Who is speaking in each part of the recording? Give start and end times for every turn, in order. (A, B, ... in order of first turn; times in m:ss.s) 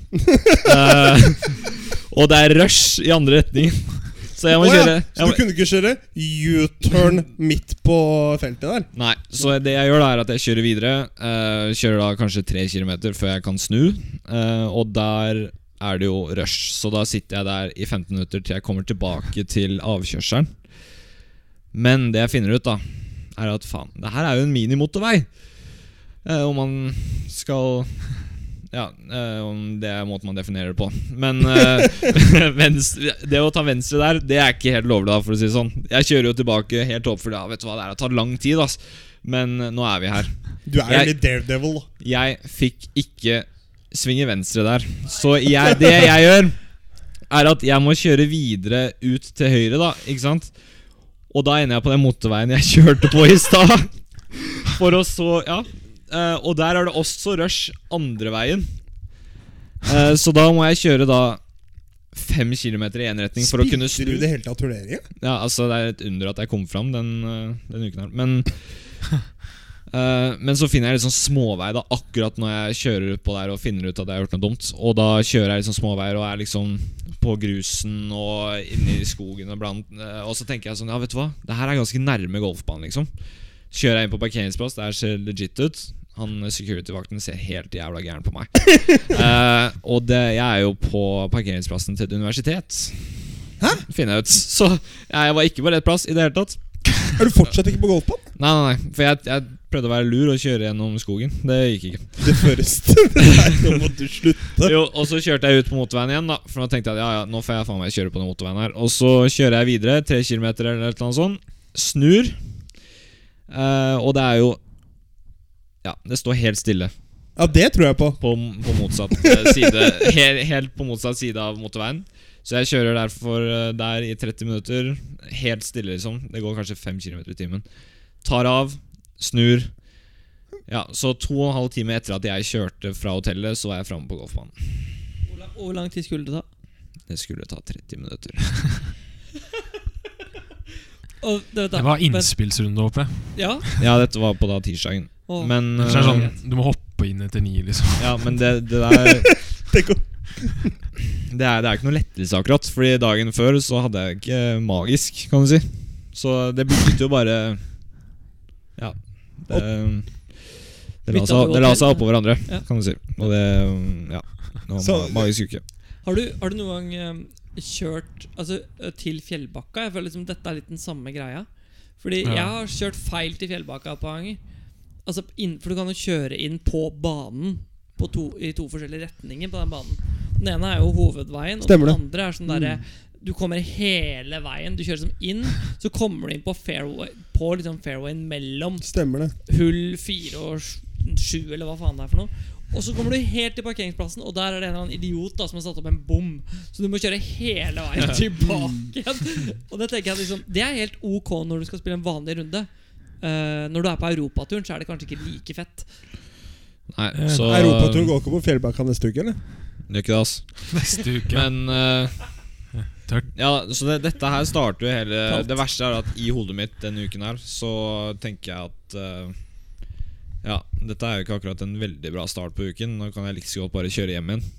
0:00.5-0:05.4 A
0:04.5-0:08.9 B
0:09.0-0:20.6 A
0:21.7-0:25.3 A
0:26.2-0:40.3 A
0:40.7-0:41.9 B
0:40.9-0:41.2 A
0:42.0-0:46.6 A
0:47.3-0:50.5 A
0:51.3-0:58.7 A
0:59.8-1:01.4 A
1:02.1-1:04.3 A
1:03.4-1:05.1 B
1:05.2-1:08.6 A
1:09.9-1:23.1 A
1:23.7-1:37.1 A
1:37.2-1:38.2 B
1:38.4-1:42.5 A
1:42.2-1:44.8 B
1:44.6-1:52.4 A
1:53.5-1:54.6 A
1:55.8-1:56.9 A
1:57.4-1:58.2 B
1:58.2-2:07.6 A
1:59.2-2:00.0 B
2:08.2-2:09.7 A
2:10.7-2:14.6 A
2:15.3-2:16.5 C
2:17.1-2:18.8 A
2:21.2-2:22.3 C
2:21.8-2:23.9 D
2:23.4-2:23.7 C
2:23.8-2:26.3 A
2:25.3-2:26.4 C
2:25.8-2:28.4 D
2:28.0-2:29.4 A
2:29.0-2:30.7 B
2:31.2-2:37.6 A
2:38.8-2:45.6 A
2:41.1-2:42.6 C
2:44.8-2:45.3 B
2:46.0-2:51.5 C
2:52.0-2:54.4 C
2:52.2-2:52.5 D
2:55.0-3:08.9 C
3:01.6-3:02.8 B
3:08.8-3:09.3 B
3:09.5-3:22.7 C
3:23.2-3:25.9 C
3:26.9-3:28.1 A
3:27.1-3:27.5 D
3:27.4-3:29.4 B
3:29.9-3:32.3 A
3:30.7-3:31.5 D
3:32.7-3:33.3 D
3:33.3-3:39.4 A
3:35.3-3:35.6 C
3:40.4-3:44.4 A